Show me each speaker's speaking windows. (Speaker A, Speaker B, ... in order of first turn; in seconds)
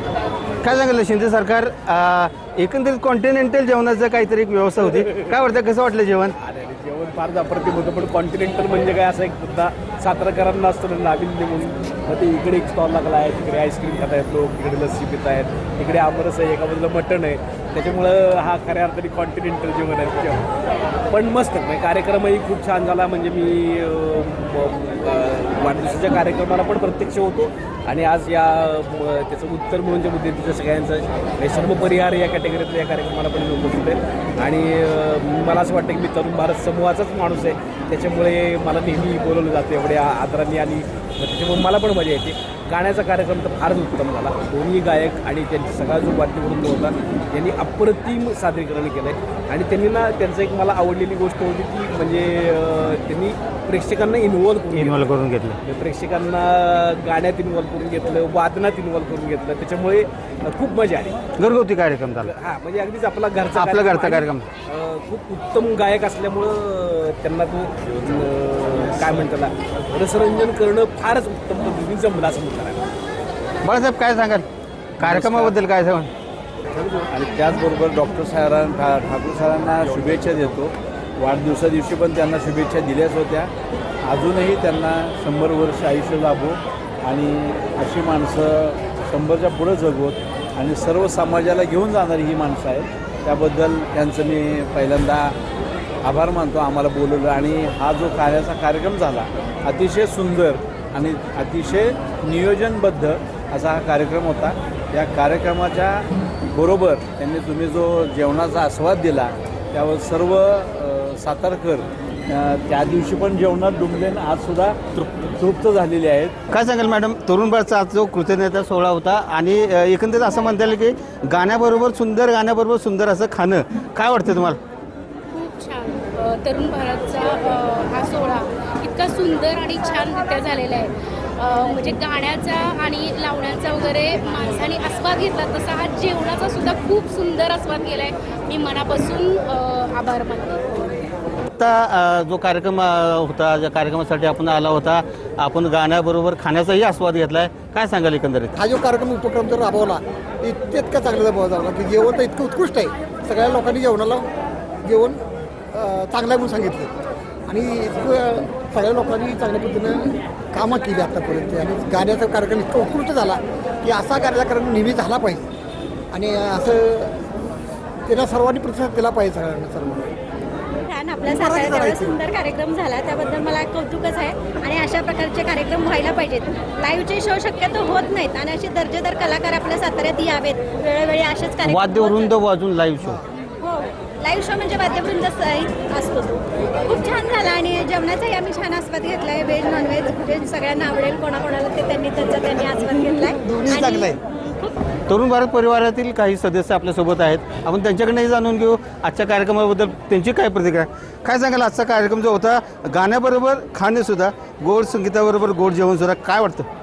Speaker A: 0.6-6.3, 54.8-55.6, 61.4-62.3, 63.5-64.5, 73.6-74.5, 75.0-76.1, 116.5-124.6, 141.6-148.5, 181.6-183.2, 193.6-194.2, 195.1-206.7
Speaker B: 6.4-20.5, 21.1-55.1, 55.6-61.2, 62.2-72.8, 75.1-75.5
Speaker C: 76.8-83.5, 84.0-95.3, 96.0-116.3
Speaker D: 125.3-140.6
Speaker E: 148.5-154.3, 154.8-155.2, 155.7-156.9, 157.5-165.4, 166.1-167.1, 168.1-170.1, 171.3-172.2
Speaker F: 170.8-182.2, 183.6-194.7